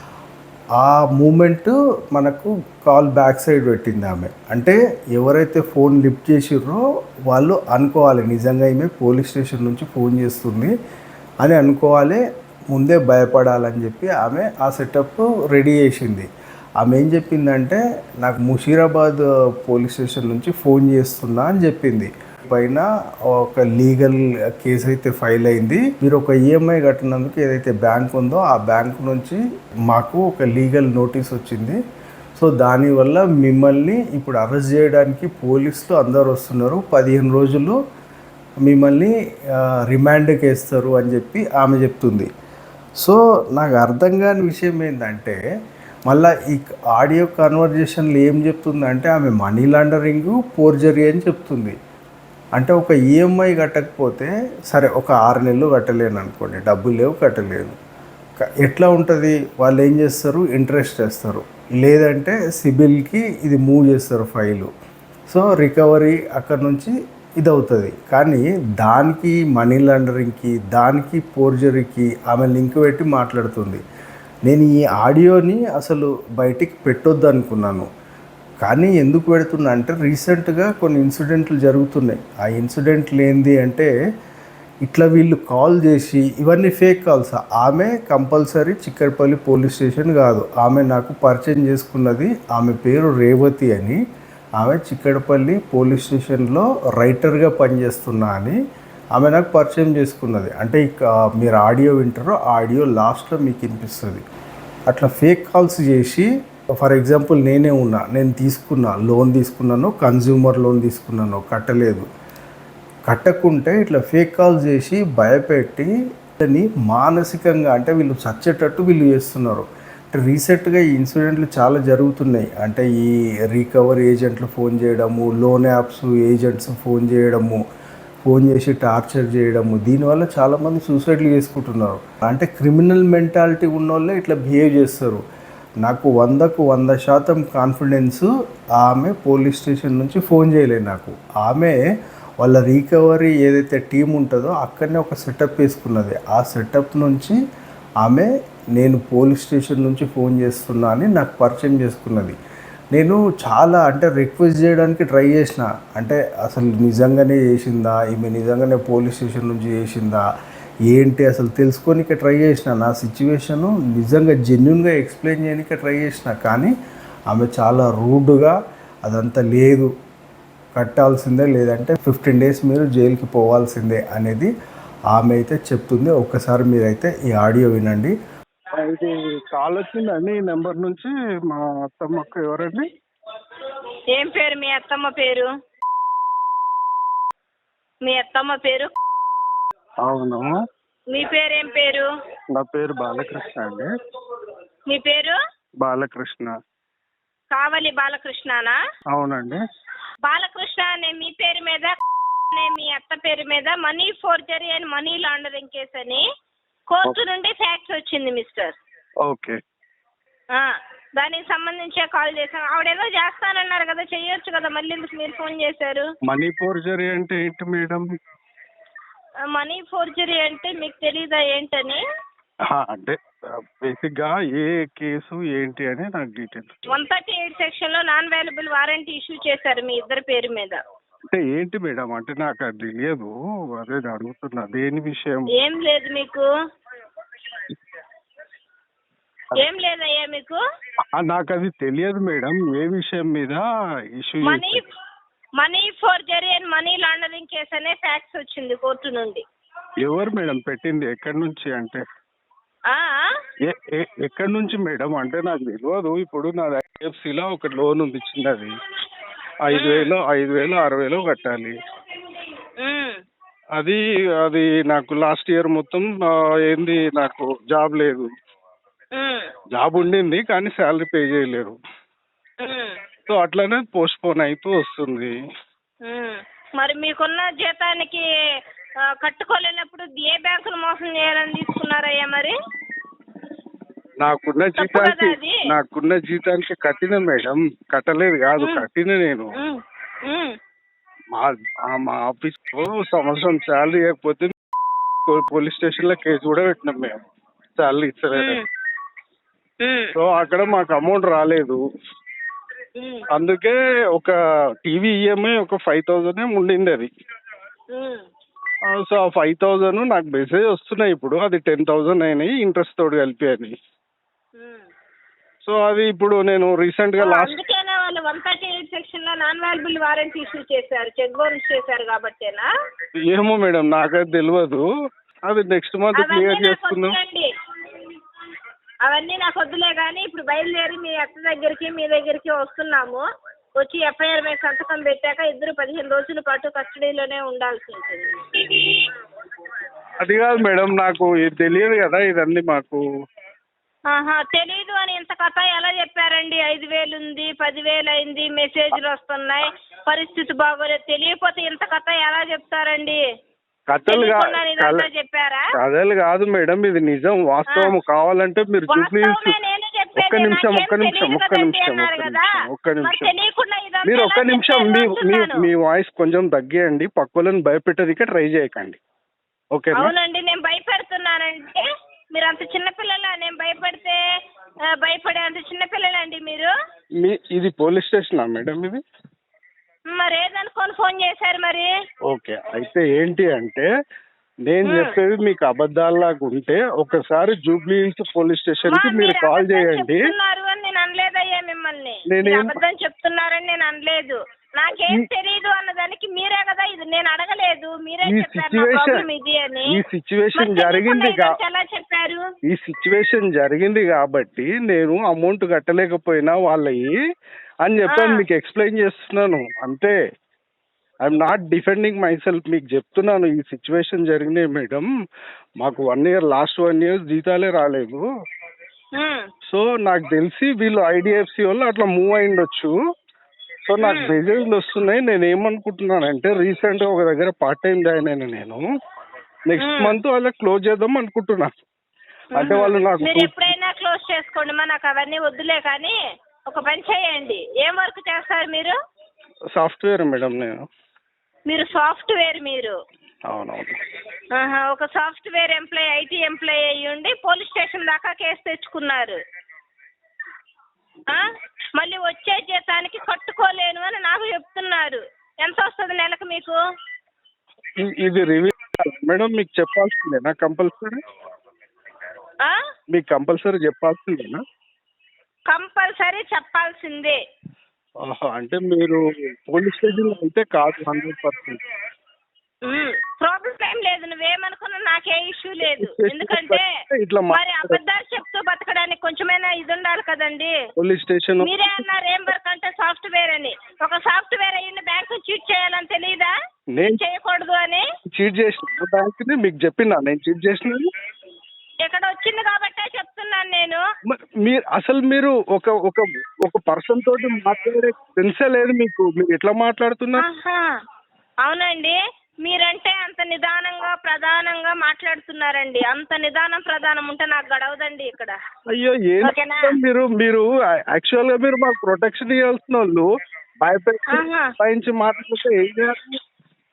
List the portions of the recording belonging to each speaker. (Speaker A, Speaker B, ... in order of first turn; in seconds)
Speaker A: 0.8-10.7, 11.4-16.3, 16.8-31.8, 32.4-37.8, 38.7-42.3, 43.0-45.4, 46.1-51.8, 52.6-57.8, 58.4-64.7, 65.3-73.8, 74.5-77.9, 78.6-83.9, 84.8-94.0, 94.6-98.6, 99.2-104.2, 104.9-112.1, 113.1-127.6, 128.2-135.2, 135.8-141.8, 142.4-147.4, 148.0-152.4, 152.9-160.2, 160.9-166.7, 167.3-169.9, 170.8-174.5, 175.1-178.2
Speaker B: 178.8-182.9, 190.1-190.5, 192.6-193.9, 195.8-196.5, 199.1-199.6, 209.2-209.6, 216.3-218.1, 222.7-223.2, 223.8-226.8, 231.3-235.5, 241.2-244.8, 250.0-252.0, 253.7-258.7, 259.6-261.8, 263.8-268.3, 269.7-271.8, 273.3-275.3, 284.2-289.5, 291.3-294.5, 295.3-297.2, 297.8-298.6, 300.1-301.8, 303.3-307.1, 308.9-313.8, 315.6-317.6, 323.3-324.9, 325.5-327.2, 340.2-343.0, 353.9-355.1, 355.8-359.6, 360.2-363.3, 364.1-369.0, 369.8-370.1, 377.2-379.0, 382.3-383.9, 384.7-390.3, 392.3-392.8, 398.3-399.3, 399.9-401.6, 402.7-407.1, 407.9-410.2, 411.2-415.1, 415.8-418.2, 419.7-422.9, 423.9-428.8, 429.7-431.7, 432.6-433.7, 439.8-440.8, 443.5-444.0, 458.0-461.2, 463.1-464.6, 468.3-471.8, 475.8-478.0, 481.0-482.1, 487.0-487.2, 488.3-491.1, 494.3-500.4, 508.9-513.3, 513.8-516.4
Speaker C: 184.2-185.5, 188.1-188.9, 191.1-192.1, 194.9-195.4, 197.5-198.8, 200.2-202.0, 202.5-206.2, 206.9-208.8, 210.5-216.1, 219.5-222.0, 226.9-230.8, 235.5-236.5, 239.6-240.6, 244.4-244.8, 245.6-249.4, 252.9-253.3, 259.7-260.1, 262.8-263.2, 269.2-269.5, 272.6-272.9, 276.0-278.3, 279.1-282.6, 284.8-285.6, 288.6-288.9, 289.6-290.6, 298.3-298.6, 299.8-300.1, 303.0-303.3, 307.9-308.3, 314.6-314.9, 317.2-322.7, 326.1-327.5, 329.1-333.2, 333.8-338.4, 344.1-353.2, 354.1-355.6, 358.9-362.5, 363.0-365.7, 370.0-371.8, 372.4-374.2, 375.0-376.7, 380.1-381.9, 384.9-385.1, 388.9-400.0, 400.6-402.4, 408.1-408.4, 419.2-419.4, 424.0-424.4, 429.8-430.2, 432.6-436.1, 436.7-439.0, 441.7-442.9, 444.5-449.4, 451.3-456.8, 465.7-467.4, 472.9-476.9, 477.5-480.7, 481.6-486.5, 487.1-488.1, 492.0-494.0, 500.4-500.9, 501.6-508.6, 509.4-509.9, 514.3-514.7